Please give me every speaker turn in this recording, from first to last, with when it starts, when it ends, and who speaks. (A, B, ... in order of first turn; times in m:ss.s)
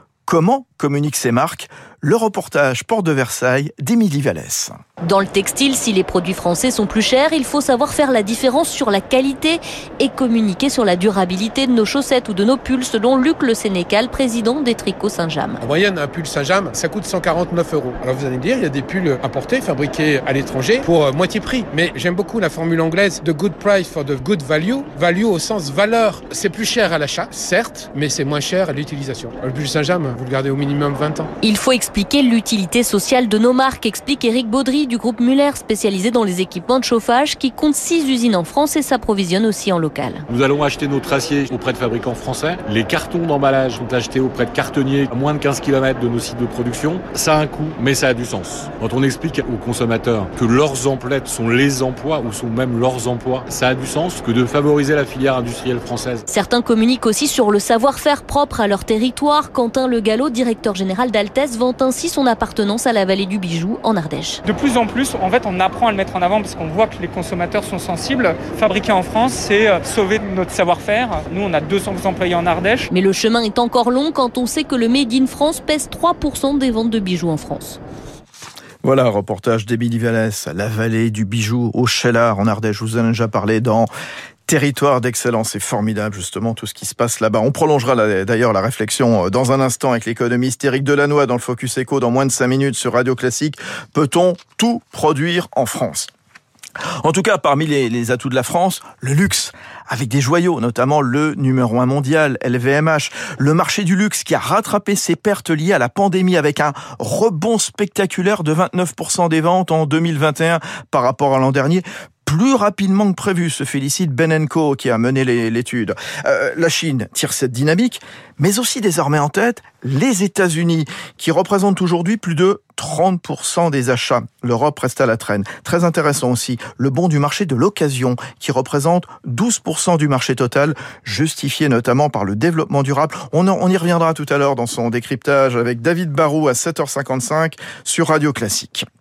0:00.3-0:04.8 A
0:05.0-0:15.6 B
0:15.6-0:31.3 C
0:31.4-0:40.2 B
0:40.3-0:56.2 D
0:56.3-1:04.4 B
1:04.4-1:12.9 E
1:12.9-1:17.8 B
1:18.8-1:23.9 A
1:24.5-1:36.1 A
1:37.0-2:18.9 A